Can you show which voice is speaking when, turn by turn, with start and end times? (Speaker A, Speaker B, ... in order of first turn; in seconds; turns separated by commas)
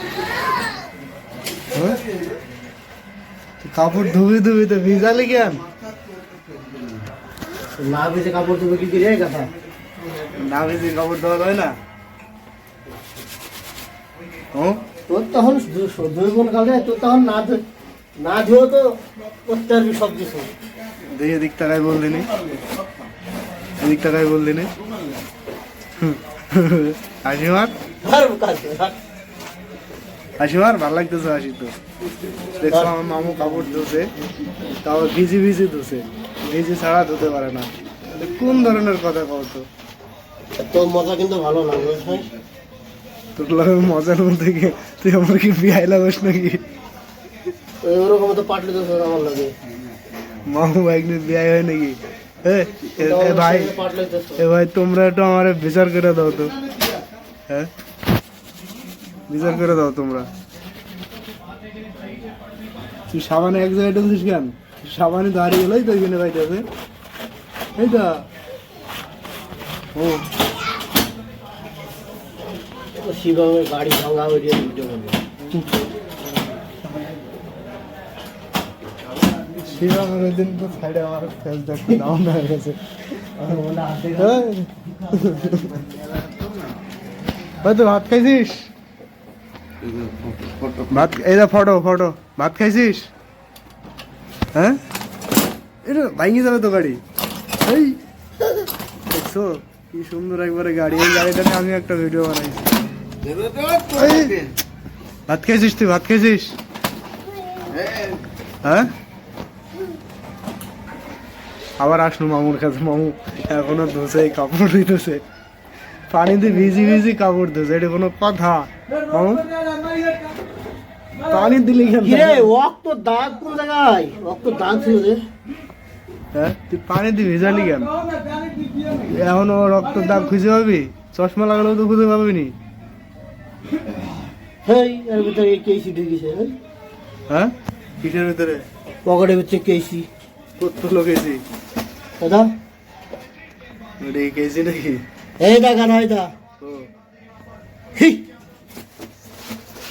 Speaker A: 1.7-2.0, Speaker A: 3.6-5.6, Speaker B: 7.8-9.5, Speaker A: 10.3-11.7, Speaker A: 14.5-14.8, Speaker B: 15.1-17.6, Speaker B: 18.2-20.5, Speaker A: 21.1-22.3, Speaker A: 23.8-24.7, Speaker A: 26.0-27.7, Speaker B: 28.0-28.9, Speaker A: 30.4-31.7, Speaker A: 32.6-34.1, Speaker A: 34.8-39.7, Speaker B: 40.7-42.3, Speaker A: 43.4-46.6, Speaker B: 47.8-49.5, Speaker A: 50.5-53.7, Speaker B: 53.0-54.4, Speaker A: 54.4-56.5, Speaker A: 59.3-60.3, Speaker A: 63.1-66.6, Speaker A: 67.8-68.2, Speaker A: 69.9-70.2, Speaker B: 73.0-75.2, Speaker A: 79.6-82.8, Speaker B: 83.4-84.5, Speaker A: 84.2-85.7, Speaker B: 85.1-85.7, Speaker A: 87.6-88.6, Speaker A: 90.9-93.1, Speaker A: 95.8-97.0, Speaker A: 97.6-98.0, Speaker A: 99.1-102.7, Speaker A: 103.8-104.5, Speaker A: 105.3-106.6, Speaker A: 108.6-108.9, Speaker A: 111.8-115.2, Speaker A: 116.1-119.5, Speaker A: 121.3-122.5, Speaker B: 122.0-125.2, Speaker A: 126.3-127.9, Speaker A: 129.0-132.5, Speaker B: 134.6-136.5, Speaker A: 137.3-138.6, Speaker B: 139.0-140.1, Speaker A: 140.6-141.4, Speaker B: 142.2-142.5, Speaker A: 144.0-145.0, Speaker B: 145.4-146.3, Speaker A: 146.6-146.9, Speaker B: 147.9-148.2